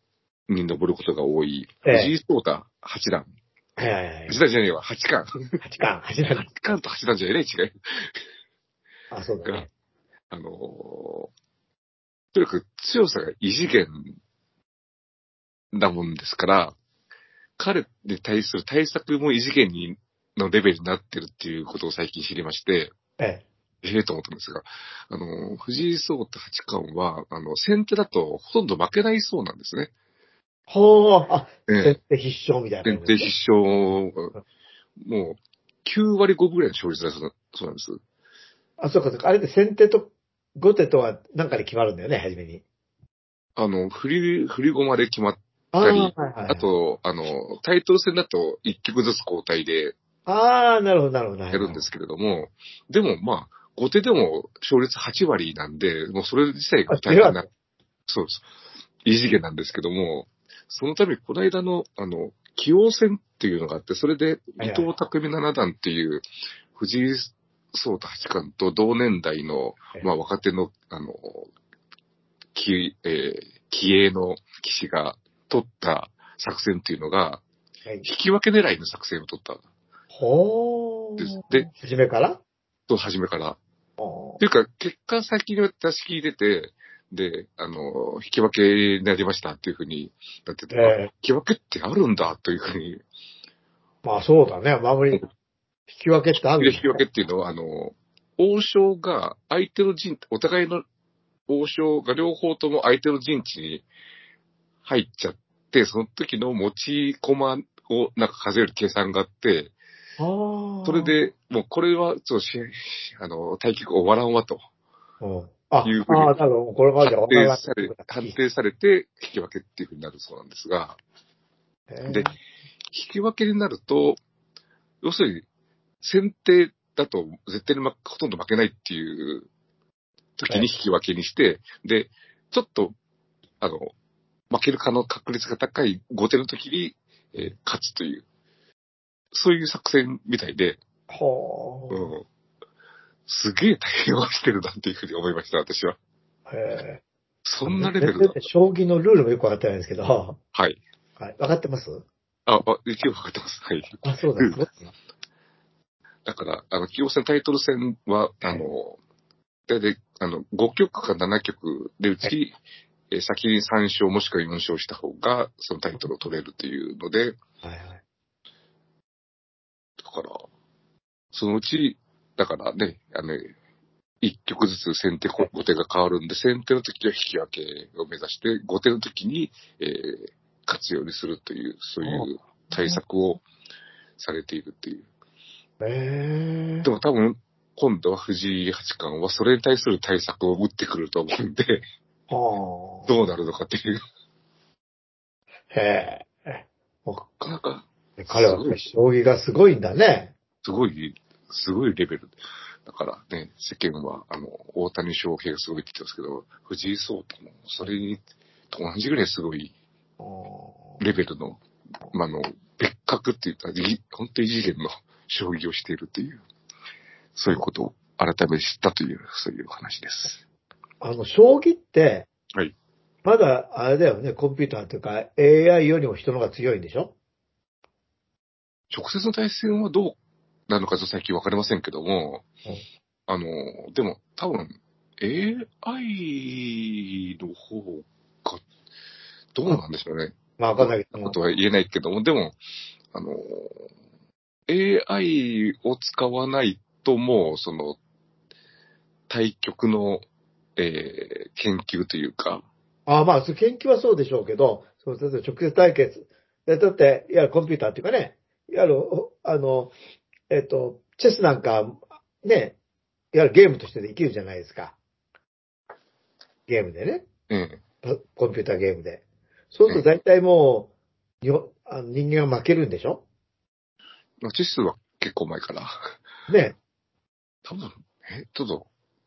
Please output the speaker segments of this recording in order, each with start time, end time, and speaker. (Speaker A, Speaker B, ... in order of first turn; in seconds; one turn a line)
Speaker A: 0.5-3.3
Speaker B: 1.9-2.1
Speaker B: 3.8-4.4
Speaker A: 4.3-5.6
Speaker B: 5.6-6.5
Speaker A: 6.3-8.1
Speaker B: 9.1-9.7
Speaker A: 10.3-11.3
Speaker A: 12.3-14.2
Speaker A: 15.7-16.8
Speaker A: 17.6-22.9
Speaker B: 23.2-23.4
Speaker A: 23.8-29.9
Speaker B: 30.7-33.3
Speaker A: 31.7-32.0
Speaker A: 32.9-34.4
Speaker A: 35.0-38.0
Speaker B: 38.8-42.6
Speaker A: 43.6-50.0
Speaker B: 45.7-46.7
Speaker B: 50.3-51.9
Speaker A: 51.5-57.5
Speaker B: 56.9-57.5
Speaker A: 58.1-58.4
Speaker A: 59.0-66.2
Speaker B: 64.6-64.9
Speaker A: 66.8-71.5
Speaker A: 72.5-77.4
Speaker A: 78.0-79.6
Speaker B: 80.1-82.4
Speaker A: 81.2-81.7
Speaker A: 82.9-83.6
Speaker B: 84.0-84.4
Speaker A: 84.4-93.0
Speaker B: 90.7-91.1
Speaker B: 94.0-95.2
Speaker B: 95.9-97.1
Speaker A: 96.5-100.8
Speaker A: 101.5-103.9
Speaker A: 104.8-109.7
Speaker B: 110.2-111.2
Speaker A: 110.8-114.6
Speaker B: 115.2-118.4
Speaker A: 115.8-116.4
Speaker A: 117.0-121.0
Speaker B: 121.9-122.3
Speaker A: 122.0-122.3
Speaker A: 122.9-124.2
Speaker A: 125.0-125.5
Speaker A: 126.0-129.5
Speaker A: 130.4-132.9
Speaker A: 133.6-133.9
Speaker A: 134.5-138.2
Speaker A: 139.3-140.8
Speaker B: 141.1-142.1
Speaker A: 141.9-142.2
Speaker A: 143.3-146.0
Speaker B: 146.5-147.0
Speaker A: 147.4-148.4
Speaker B: 147.6-150.4
Speaker A: 150.5-150.8
Speaker B: 151.2-152.1
Speaker A: 152.5-154.6
Speaker B: 154.0-154.9
Speaker A: 156.3-159.0
Speaker A: 159.7-162.6
Speaker A: 163.1-167.4
Speaker B: 167.6-168.0
Speaker A: 170.0-170.4
Speaker A: 171.3-173.5
Speaker A: 174.2-183.4
Speaker B: 182.0-183.0
Speaker A: 184.2-185.1
Speaker B: 185.8-186.9
Speaker A: 186.8-191.8
Speaker B: 192.3-193.1
Speaker A: 193.1-194.0
Speaker B: 195.7-197.3
Speaker A: 197.4-198.8
Speaker B: 198.2-200.3
Speaker A: 200.6-202.3
Speaker A: 202.9-209.7
Speaker B: 210.2-211.0
Speaker A: 211.0-216.4
Speaker A: 217.3-220.4
Speaker B: 221.0-222.3
Speaker B: 223.2-227.2
Speaker A: 228.9-230.2
Speaker A: 230.7-232.5
Speaker A: 233.3-238.6
Speaker A: 239.6-242.6
Speaker B: 240.6-241.4
Speaker A: 243.1-243.8
Speaker A: 244.7-248.0
Speaker A: 249.3-250.2
Speaker A: 250.8-252.7
Speaker B: 253.1-259.9
Speaker B: 260.5-262.8
Speaker B: 263.3-265.0
Speaker B: 266.7-267.3
Speaker A: 267.5-267.8
Speaker B: 268.0-269.2
Speaker B: 269.7-270.9
Speaker B: 271.4-273.2
Speaker A: 274.4-276.0
Speaker B: 276.5-276.8
Speaker A: 277.7-278.9